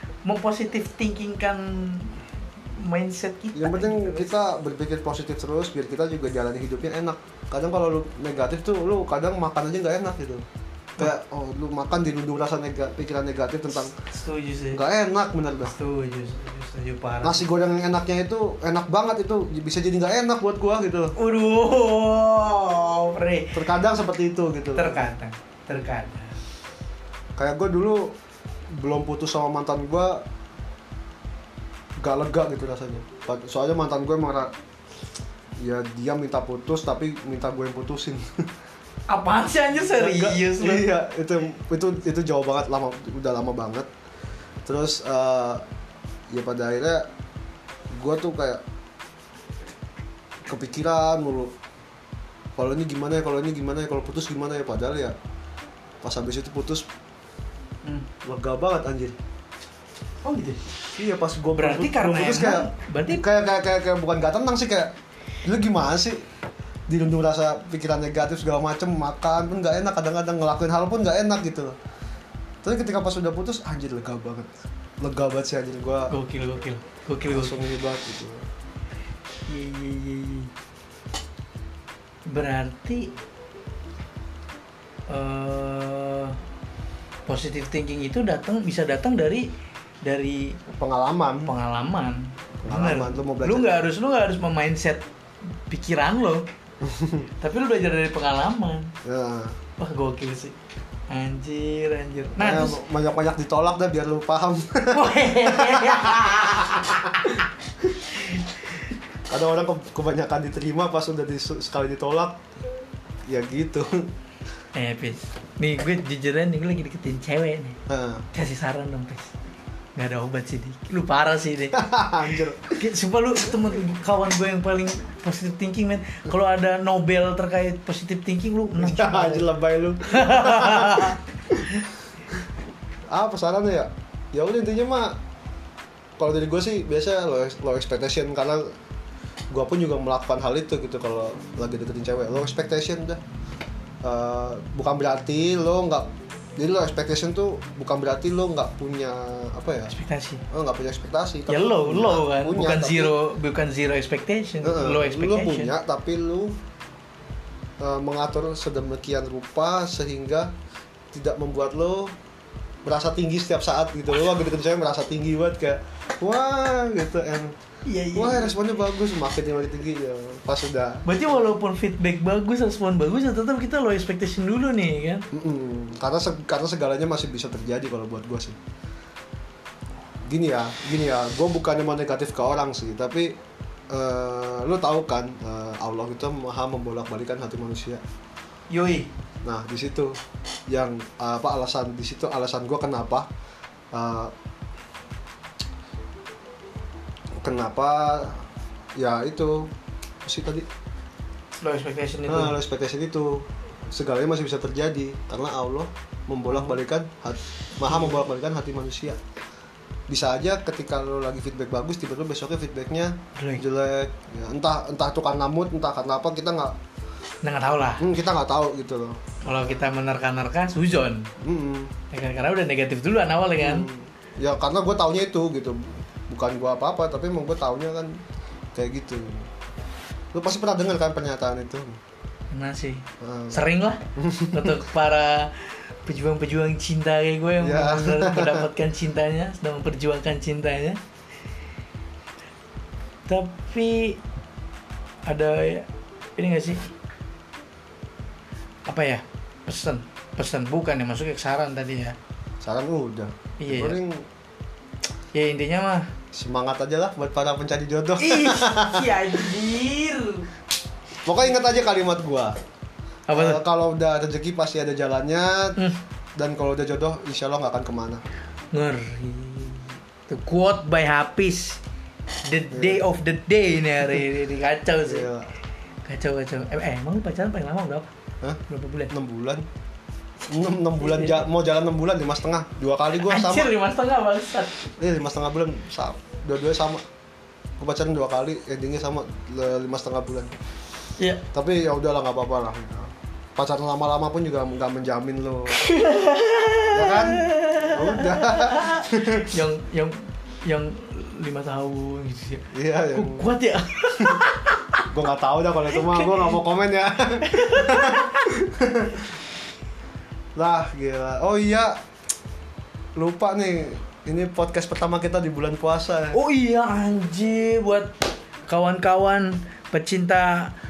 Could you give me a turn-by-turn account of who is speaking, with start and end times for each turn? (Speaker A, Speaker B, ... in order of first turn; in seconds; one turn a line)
Speaker A: 0.2-4.3
Speaker B: 3.5-10.4
Speaker B: 11.0-13.9
Speaker A: 14.1-14.8
Speaker B: 14.7-15.7
Speaker A: 15.7-17.5
Speaker B: 17.2-21.1
Speaker A: 21.2-23.7
Speaker B: 23.5-25.0
Speaker A: 24.7-26.4
Speaker B: 27.4-28.2
Speaker B: 28.7-30.3
Speaker B: 32.0-34.5
Speaker B: 35.6-38.4
Speaker A: 39.1-40.9
Speaker B: 39.9-43.9
Speaker B: 44.7-45.6
Speaker B: 46.3-47.1
Speaker B: 47.9-48.6
Speaker B: 50.5-51.5
Speaker B: 52.6-55.2
Speaker B: 56.0-56.9
Speaker B: 58.2-59.2
Speaker A: 60.2-60.6
Speaker B: 61.0-66.2
Speaker A: 61.5-63.2
Speaker B: 66.9-71.7
Speaker B: 72.6-76.1
Speaker A: 76.1-77.6
Speaker B: 77.3-78.5
Speaker A: 79.5-80.5
Speaker A: 82.3-83.1
Speaker A: 85.1-86.4
Speaker A: 87.3-89.5
Speaker A: 90.0-90.6
Speaker B: 90.7-91.5
Speaker A: 91.4-96.5
Speaker B: 92.6-93.8
Speaker B: 96.8-97.3
Speaker A: 97.4-98.9
Speaker B: 99.0-99.6
Speaker A: 99.8-100.5
Speaker A: 101.1-102.8
Speaker B: 102.4-108.1
Speaker A: 104.9-107.3
Speaker B: 109.3-112.4
Speaker B: 113.3-114.1
Speaker A: 114.7-117.8
Speaker B: 117.9-118.3
Speaker A: 118.3-119.3
Speaker A: 120.0-121.8
Speaker B: 121.7-122.7
Speaker A: 122.7-129.5
Speaker B: 128.8-131.7
Speaker A: 130.1-131.9
Speaker B: 133.1-135.2
Speaker B: 136.2-138.6
Speaker B: 139.5-143.2
Speaker B: 144.0-149.9
Speaker A: 149.9-150.4
Speaker B: 150.5-153.1
Speaker A: 151.5-155.7
Speaker B: 154.6-156.6
Speaker B: 157.8-160.5
Speaker B: 161.1-162.1
Speaker B: 162.8-167.6
Speaker A: 167.8-168.5
Speaker B: 168.1-171.0
Speaker A: 171.1-175.3
Speaker B: 175.3-178.6
Speaker B: 180.3-183.4
Speaker B: 183.9-188.0
Speaker A: 188.7-189.1
Speaker B: 189.4-190.2
Speaker B: 190.7-193.3
Speaker B: 193.9-194.3
Speaker B: 197.4-198.4
Speaker B: 199.0-199.7
Speaker B: 200.2-200.7
Speaker A: 201.6-202.6
Speaker B: 202.3-209.2
Speaker A: 206.5-206.8
Speaker A: 207.8-208.2
Speaker B: 210.1-216.8
Speaker A: 213.4-213.6
Speaker A: 217.4-218.1
Speaker B: 218.0-219.2
Speaker A: 219.4-221.3
Speaker B: 221.4-221.9
Speaker A: 222.1-223.9
Speaker B: 223.6-228.1
Speaker B: 228.7-229.5
Speaker B: 230.3-232.0
Speaker A: 232.5-241.0
Speaker B: 233.2-233.6
Speaker B: 234.2-234.8
Speaker B: 237.6-238.7
Speaker A: 243.3-244.2
Speaker A: 245.3-246.9
Speaker A: 248.9-252.2
Speaker B: 252.6-254.2
Speaker A: 253.6-254.0
Speaker A: 255.3-256.1
Speaker B: 256.3-259.2
Speaker A: 258.2-260.5
Speaker B: 261.2-262.6
Speaker A: 263.3-263.6
Speaker B: 263.3-265.8
Speaker B: 266.4-268.2
Speaker A: 268.7-271.8
Speaker A: 272.4-275.3
Speaker B: 272.7-273.0
Speaker B: 275.1-275.5
Speaker A: 276.1-278.1
Speaker B: 278.4-279.7
Speaker A: 278.7-279.1
Speaker B: 280.4-283.7
Speaker A: 281.0-281.4
Speaker A: 283.2-284.9
Speaker B: 285.0-287.0
Speaker B: 287.8-290.5
Speaker A: 291.2-291.4
Speaker B: 291.5-295.8
Speaker A: 295.7-305.1
Speaker B: 296.9-299.5
Speaker B: 302.7-303.6
Speaker B: 304.2-304.4
Speaker B: 305.1-309.3
Speaker A: 305.9-306.5
Speaker A: 307.4-308.6
Speaker B: 310.6-312.0
Speaker B: 313.2-316.4
Speaker A: 316.3-318.1
Speaker A: 318.7-320.7